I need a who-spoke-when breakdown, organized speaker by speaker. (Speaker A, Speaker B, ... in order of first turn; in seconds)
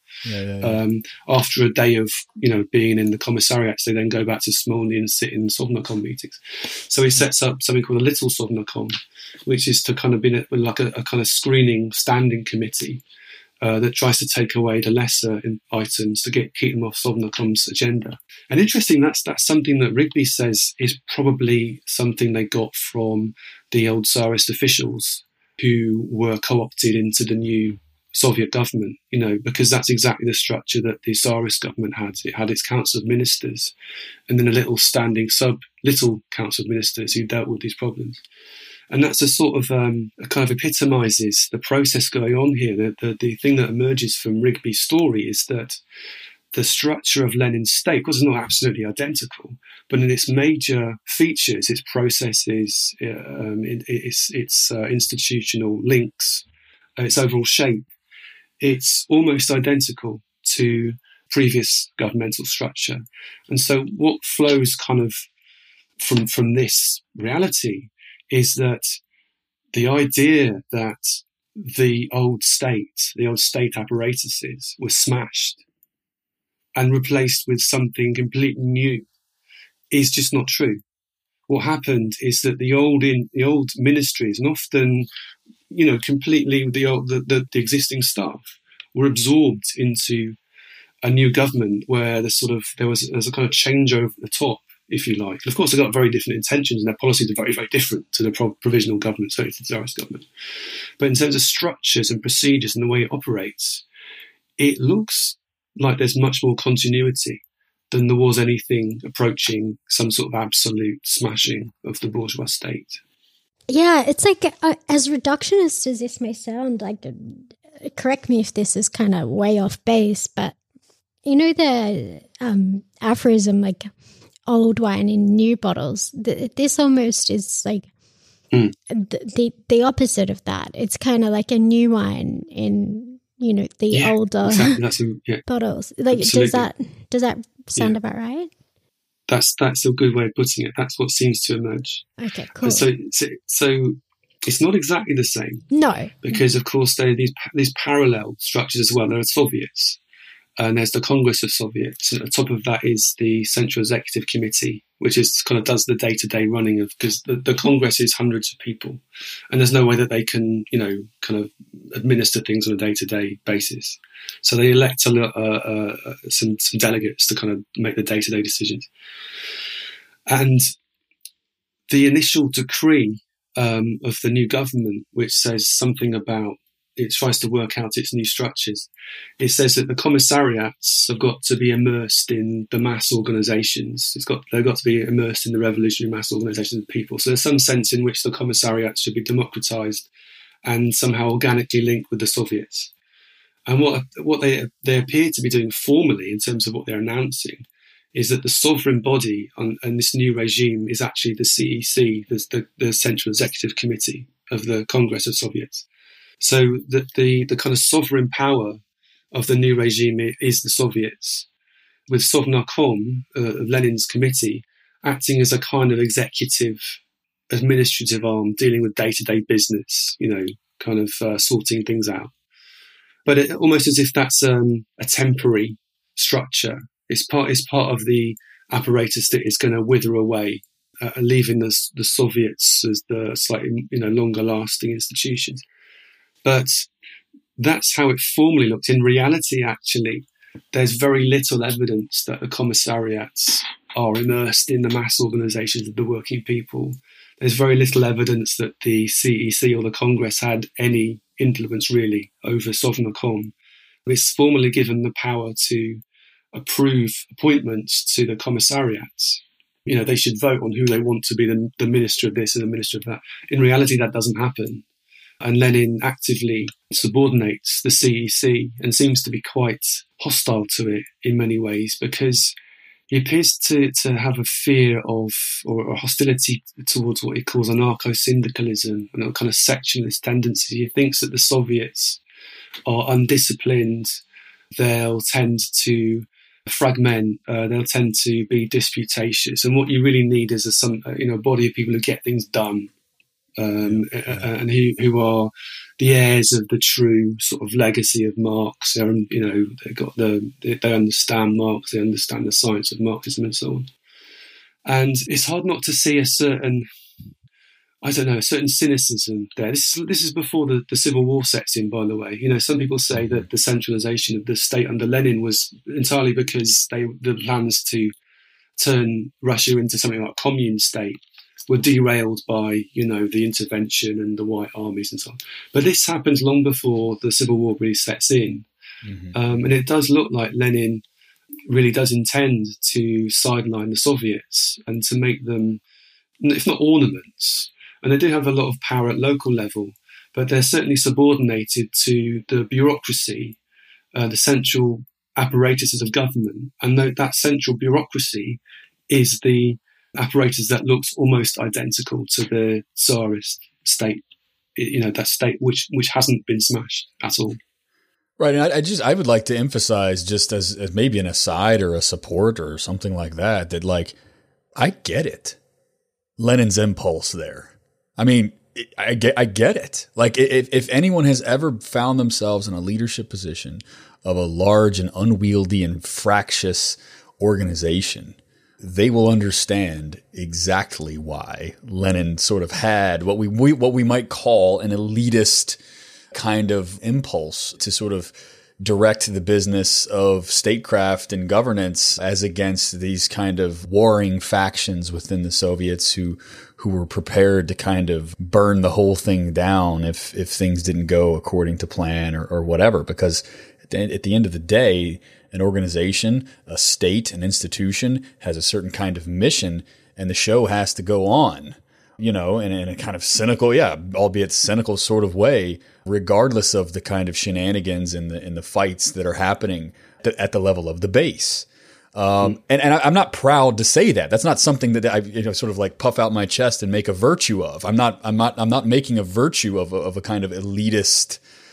Speaker A: 0.2-0.8, 293.8-294.5, 313.1-313.4, 329.0-329.6, 358.4-364.1, 364.8-365.6, 366.4-385.8, 386.3-431.4
Speaker B: 0.6-13.0, 13.6-33.7, 34.3-38.2, 38.9-45.8, 46.5-56.4, 57.0-57.9, 58.6-65.3, 66.0-69.0, 69.7-75.6, 76.8-79.0, 79.9-80.8, 81.5-85.1, 85.7-90.4, 91.0-100.2, 101.0-103.8, 104.6-113.0, 133.9-135.4, 136.1-136.7, 139.3-142.0, 142.6-145.6, 146.2-150.0, 150.6-168.9, 170.3-170.7, 171.9-178.9, 179.4-190.1, 190.6-192.9, 193.7-205.8, 206.4-208.8, 209.3-211.5, 212.1-217.0, 217.5-222.3, 223.2-235.6, 236.4-236.9, 237.6-253.5, 254.1-256.0, 256.5-264.8, 265.4-272.5, 273.1-282.2, 282.9-284.2, 284.8-292.9, 293.6-303.9, 304.9-306.8, 308.0-318.1, 318.8-328.6, 329.3-331.0, 331.7-335.8, 336.4-343.6, 344.1-354.2, 354.8-357.6
Speaker C: 113.7-120.5, 121.2-123.9, 124.5-127.9, 128.9-134.8, 135.5-138.5, 142.2-142.9, 145.7-146.4